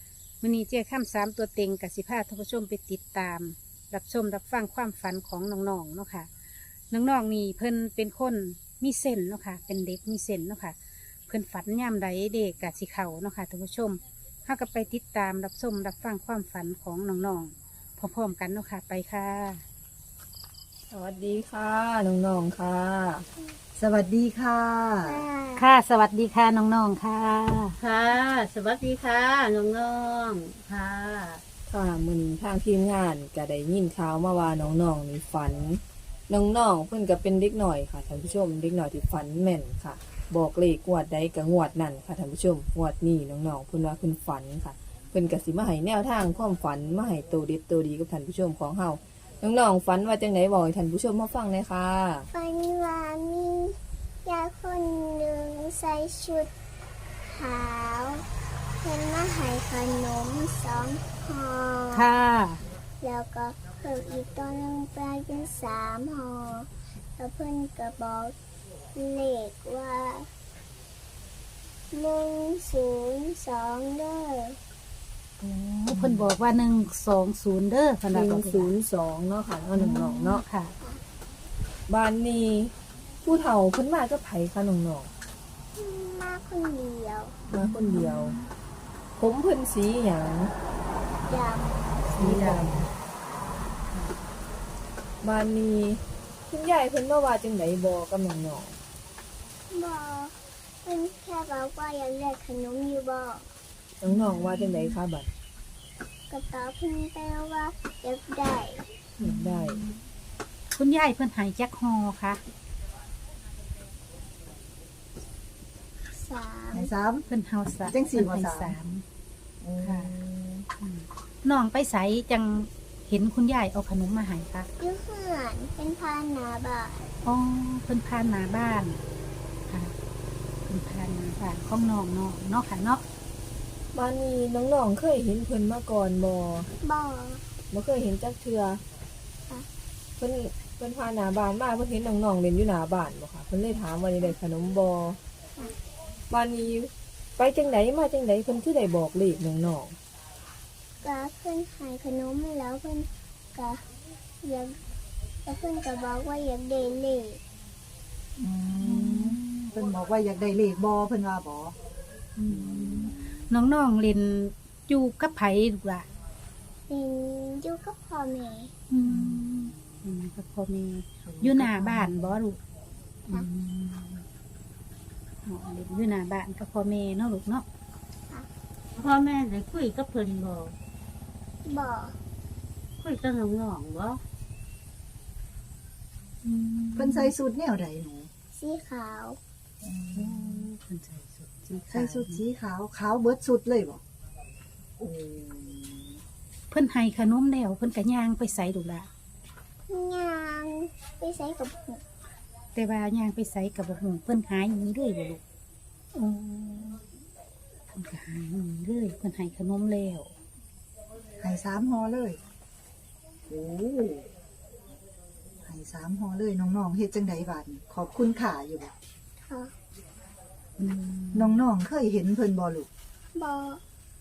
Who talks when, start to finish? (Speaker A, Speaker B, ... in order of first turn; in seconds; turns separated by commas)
Speaker A: 0.4-6.3, Speaker A: 6.9-10.8, Speaker A: 11.3-19.6, Speaker B: 20.9-23.3, Speaker C: 23.8-25.2, Speaker D: 25.1-25.7, Speaker A: 25.6-27.8, Speaker E: 27.8-31.4, Speaker B: 31.7-52.3, Speaker D: 52.3-56.5, Speaker D: 57.3-58.2, Speaker D: 58.8-62.1, Speaker A: 61.9-62.6, Speaker D: 63.0-68.3, Speaker D: 68.9-70.3, Speaker D: 71.9-74.6, Speaker A: 75.5-78.7, Speaker B: 78.1-80.4, Speaker A: 79.8-80.8, Speaker B: 81.9-85.1, Speaker D: 85.8-87.4, Speaker A: 87.5-88.5, Speaker B: 87.5-88.4, Speaker B: 89.2-90.5, Speaker D: 91.3-92.4, Speaker B: 92.2-92.8, Speaker A: 92.2-92.9, Speaker B: 95.2-98.8, Speaker D: 99.7-103.5, Speaker B: 104.0-105.3, Speaker A: 104.1-105.0, Speaker D: 106.3-108.9, Speaker A: 109.2-110.0, Speaker B: 109.2-109.8, Speaker A: 110.7-112.4, Speaker D: 116.2-116.9, Speaker C: 116.7-117.3, Speaker A: 117.3-119.0, Speaker C: 117.9-118.8, Speaker C: 119.6-120.7, Speaker A: 119.8-120.1, Speaker A: 120.8-124.7, Speaker D: 124.8-127.1, Speaker A: 127.2-129.0, Speaker A: 129.7-129.9, Speaker A: 130.7-133.0, Speaker B: 133.9-136.7, Speaker D: 136.8-137.4, Speaker B: 137.7-138.8, Speaker B: 140.2-145.2, Speaker B: 146.3-150.0, Speaker D: 151.0-153.8, Speaker D: 154.4-154.8, Speaker D: 155.4-157.4, Speaker C: 158.4-161.8, Speaker A: 158.8-159.5, Speaker A: 162.4-166.1, Speaker C: 162.5-163.4, Speaker D: 166.9-168.7, Speaker A: 168.9-172.6, Speaker C: 169.1-169.5, Speaker C: 171.3-172.3, Speaker A: 173.3-174.2, Speaker A: 175.4-177.7, Speaker E: 178.9-180.8, Speaker D: 181.7-182.2, Speaker E: 183.0-184.2, Speaker A: 186.4-187.3, Speaker C: 187.0-188.3, Speaker D: 188.6-189.4, Speaker C: 189.8-190.6, Speaker A: 190.2-192.4, Speaker C: 191.9-194.0, Speaker C: 195.0-196.2, Speaker A: 196.7-199.1, Speaker D: 199.9-202.0, Speaker A: 202.8-205.4, Speaker A: 206.2-207.0, Speaker A: 207.9-210.3, Speaker C: 211.4-212.4, Speaker C: 213.5-214.3, Speaker C: 215.7-218.9, Speaker D: 219.5-219.7, Speaker A: 220.8-221.6, Speaker C: 221.3-222.9, Speaker D: 223.3-223.8